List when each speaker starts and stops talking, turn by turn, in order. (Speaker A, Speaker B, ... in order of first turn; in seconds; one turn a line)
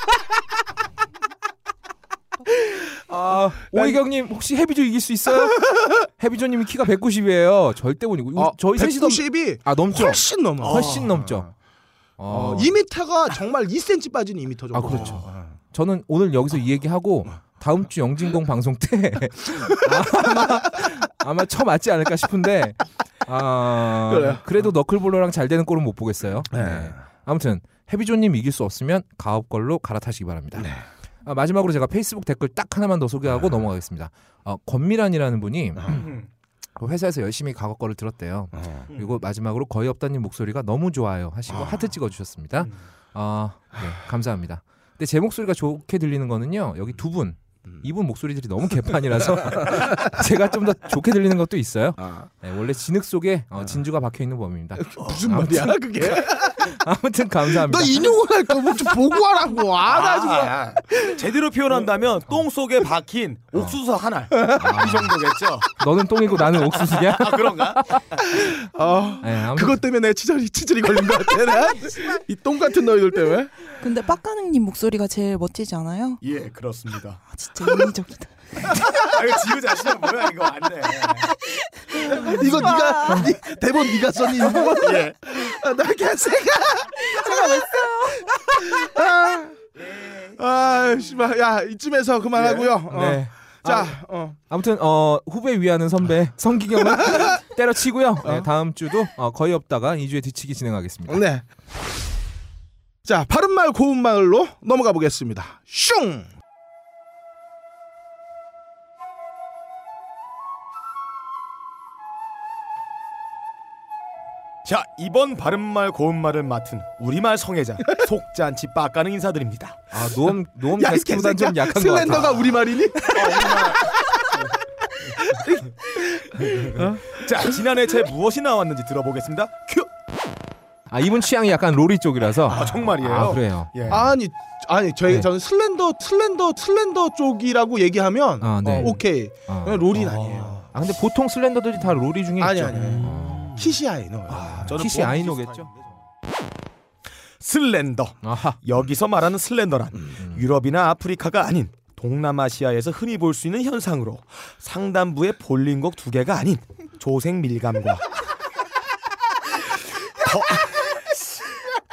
Speaker A: 3.1-11.5
Speaker B: 3.1-4.0
Speaker B: 8.4-11.5
Speaker C: 10.6-11.1
Speaker A: 12.2-12.8
Speaker B: 12.3-15.5
Speaker A: 14.7-36.1
Speaker B: 24.1-24.4
Speaker B: 26.6-26.9
Speaker C: 35.9-36.2
Speaker A: 36.8-58.1
Speaker B: 49.6-50.1
Speaker B: 52.0-52.3
Speaker B: 54.8-56.7
Speaker B: 57.5-61.2
Speaker C: 59.9-65.7
Speaker B: 64.4-64.8
Speaker A: 64.5-65.2
Speaker A: 65.8-67.8
Speaker C: 66.5-68.2
Speaker B: 68.3-73.5
Speaker A: 69.2-69.8
Speaker D: 73.8-76.2
Speaker C: 76.2-77.2
Speaker D: 77.3-78.8
Speaker C: 79.0-81.3
Speaker B: 81.9-89.6
Speaker C: 82.3-82.9
Speaker C: 84.6-85.4
Speaker C: 89.9-90.3
Speaker B: 90.4-94.4
Speaker C: 92.3-92.8
Speaker A: 92.8-101.2
Speaker B: 97.0-97.3
Speaker B: 101.1-101.4
Speaker B: 103.0-106.3
Speaker C: 114.7-119.8
Speaker A: 119.9-122.7
Speaker B: 120.8-127.2
Speaker C: 123.1-123.9
Speaker C: 126.4-129.9
Speaker A: 130.9-134.1
Speaker C: 132.5-134.1
Speaker B: 132.5-132.8
Speaker B: 133.9-140.7
Speaker A: 138.4-143.5
Speaker C: 139.9-140.6
Speaker B: 142.4-144.8
Speaker C: 142.7-143.8
Speaker A: 144.3-145.7
Speaker C: 144.7-146.0
Speaker C: 147.4-158.1
Speaker A: 148.2-148.6
Speaker A: 150.2-150.5
Speaker C: 160.2-161.0